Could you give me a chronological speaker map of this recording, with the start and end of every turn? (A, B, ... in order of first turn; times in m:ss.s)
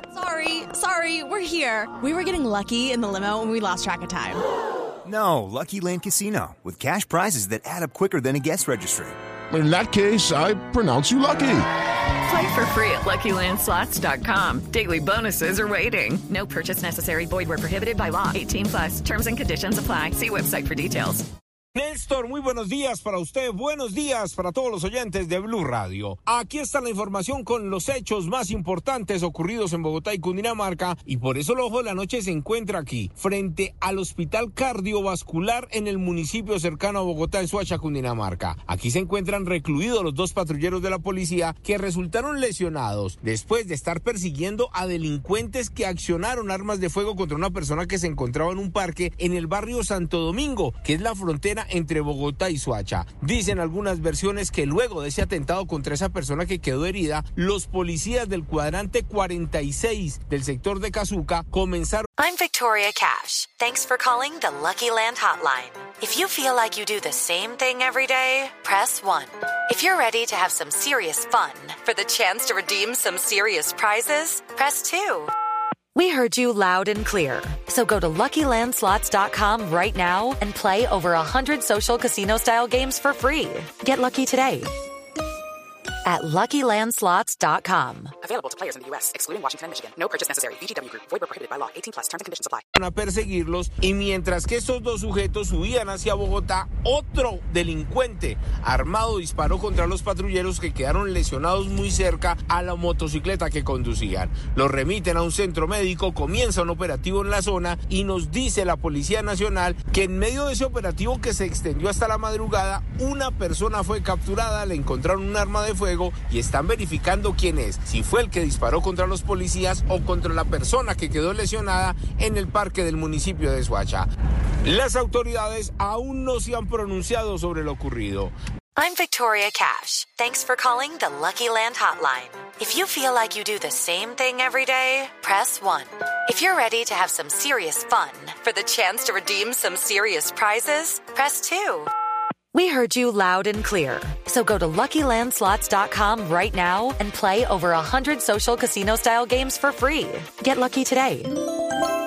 0:00.1-0:04.4 A
0:05.0-0:09.2 B
0:09.5-0:11.6 C
0:12.2-0:21.2 D
0:21.7-1:02.1 E
1:02.2-1:15.3 F
1:16.0-1:24.7 F
1:26.1-1:28.1 F
1:28.2-1:32.6 G
1:32.8-2:04.1 E
2:04.6-2:08.3 E
2:08.8-2:21.9 F
2:22.5-2:31.3 F